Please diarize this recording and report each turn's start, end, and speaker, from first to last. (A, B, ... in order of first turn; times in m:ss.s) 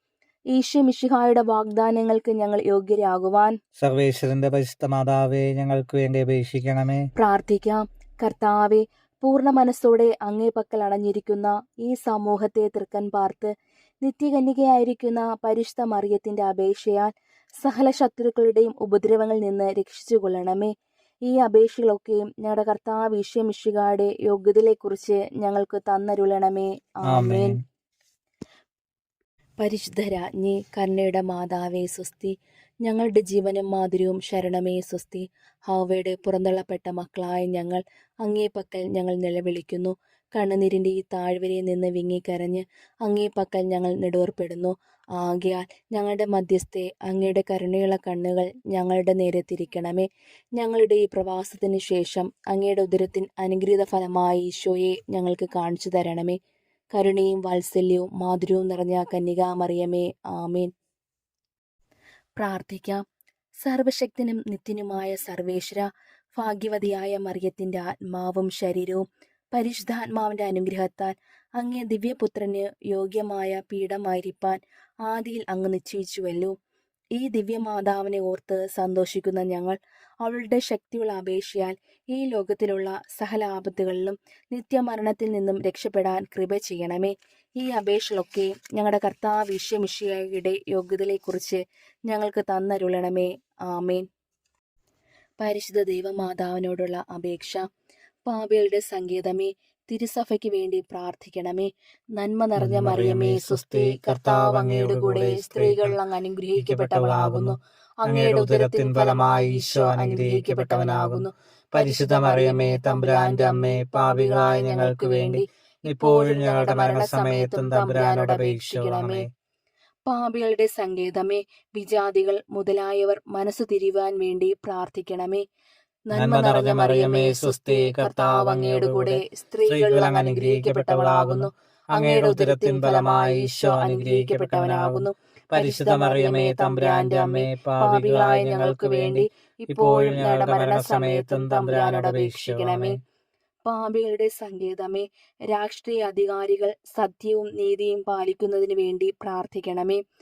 0:00.5-0:03.6 A
0:03.8-0:07.0 B
0:07.2-0:20.7 A
0:21.2-0:27.6 A
0:27.0-0:27.6 B
0:29.6-0:56.4 A
0:56.9-1:00.7 A
1:02.4-1:03.0 A
1:03.6-1:16.5 A
1:17.2-1:34.1 A
1:35.4-1:37.6 A
1:38.2-1:59.3 A
1:42.6-1:46.0 B
1:46.6-1:59.3 B
2:00.1-2:05.4 A
2:06.1-2:23.0 A
2:06.1-2:23.0 B
2:23.6-2:30.0 A